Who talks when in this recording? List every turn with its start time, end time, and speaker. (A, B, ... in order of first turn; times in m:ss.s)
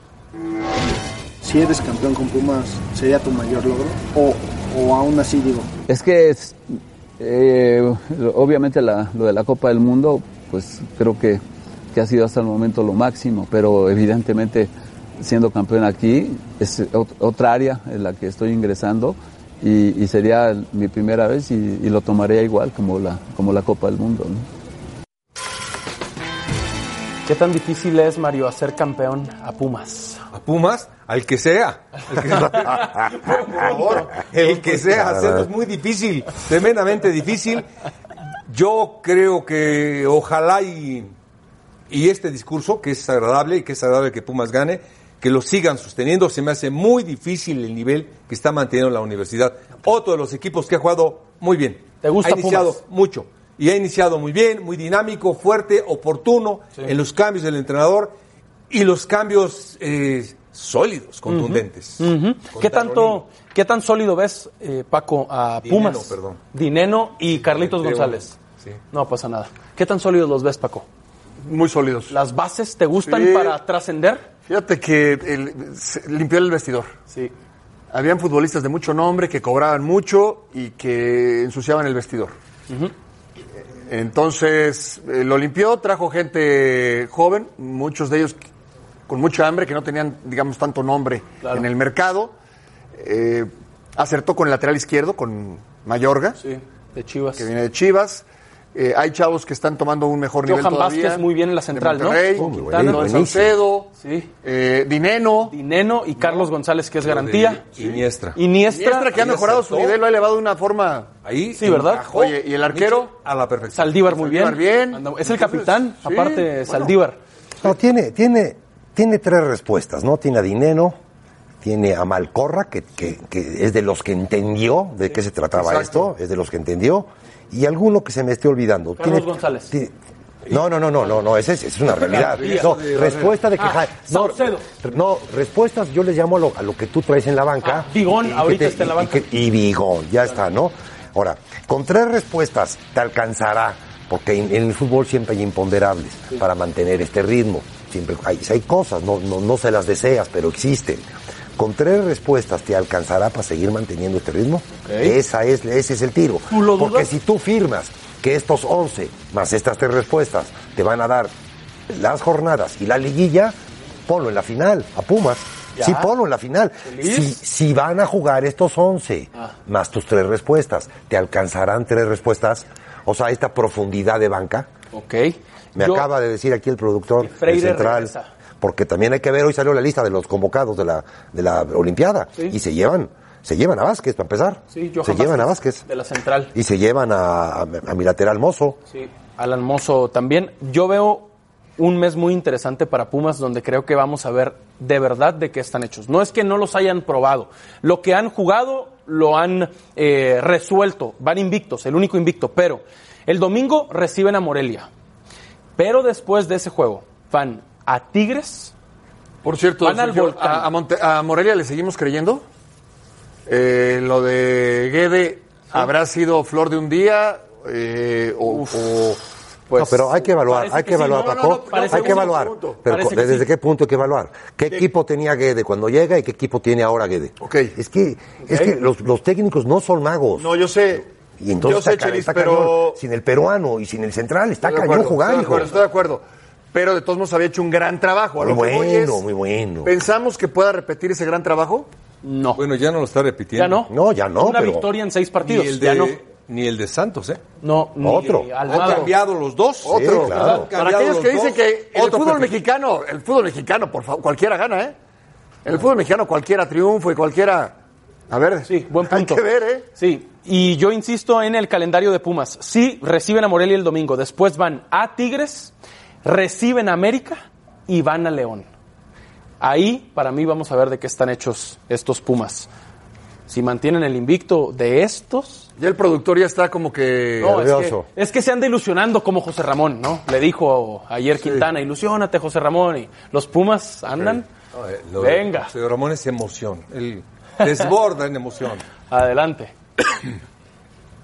0:01.4-0:05.7 A
0:05.9-0:06.6 B
0:07.2-0:24.5 B
0:27.2-0:30.2 C
0:30.3-0:37.6 D
0:32.3-0:34.2 C
0:38.5-0:41.1 D
0:41.9-0:58.1 D
0:52.0-0:52.8 C
0:58.7-1:03.2 D
1:01.3-1:08.4 C
1:05.6-1:06.4 D
1:07.2-1:08.8 D
1:08.9-1:10.8 C
1:11.4-1:12.2 E
1:12.1-1:14.2 C
1:13.0-1:13.6 E
1:14.4-1:16.9 E
1:17.9-1:22.3 E
1:23.9-1:28.4 E
1:29.1-1:32.3 E
1:33.0-1:36.4 E
1:36.4-1:37.5 C
1:37.4-1:43.9 E
1:40.4-1:43.2 C
1:42.4-1:43.6 F
1:44.0-1:44.3 C
1:44.4-1:45.5 E
1:45.5-1:47.8 C
1:46.2-1:46.5 D
1:47.0-1:48.4 D
1:48.3-1:49.2 C
1:48.7-1:51.1 E
1:49.1-1:50.0 D
1:51.2-1:54.0 D
1:51.5-1:52.1 C
1:52.1-1:53.1 E
1:53.7-1:57.2 C
1:54.1-1:56.9 E
1:57.6-2:01.0 F
2:01.6-2:09.9 F
2:05.6-2:06.1 E
2:09.0-2:09.7 C
2:10.5-2:41.3 F
2:11.9-2:13.4 D
2:12.1-2:13.0 C
2:13.6-2:14.6 C
2:17.6-2:19.3 C
2:34.8-2:35.2 C
2:36.5-2:37.1 C
2:41.9-2:54.7 F
2:45.8-2:46.1 C
2:46.8-2:47.4 C
2:54.9-2:56.0 C
2:55.7-3:05.8 F
2:57.2-2:58.3 C
3:04.7-3:06.5 C
3:06.5-3:08.8 F
3:08.9-3:24.9 C
3:25.8-3:28.7 C
3:29.4-3:32.4 E
3:29.8-3:30.7 C
3:33.5-3:39.2 E
3:38.5-3:38.8 C
3:39.7-3:43.5 C
3:39.8-3:50.7 F
3:41.1-3:42.8 E
3:47.4-3:47.7 E
3:50.4-3:51.0 E
3:51.4-3:55.7 F
3:51.6-3:53.0 E
3:54.6-3:59.2 E
3:58.4-3:59.9 F
3:59.8-4:01.9 E
4:02.2-4:02.6 C
4:02.5-4:03.8 D
4:03.5-4:06.2 C
4:03.9-4:04.9 F
4:05.4-4:07.4 D
4:07.6-4:09.2 C
4:08.0-4:08.5 F
4:08.6-4:12.6 D
4:08.8-4:09.1 E
4:09.8-4:10.7 F
4:09.8-4:14.9 E
4:10.3-4:10.7 C
4:15.6-4:17.8 E
4:18.3-4:19.9 E
4:18.6-4:19.4 C
4:20.0-4:25.7 C
4:26.2-4:28.7 C
4:29.6-4:32.7 C
4:33.5-4:35.7 C
4:35.8-4:37.6 E
4:37.4-4:44.5 C
4:37.4-4:38.0 F
4:44.2-4:48.8 D
4:45.2-4:45.7 C
4:49.1-4:49.7 C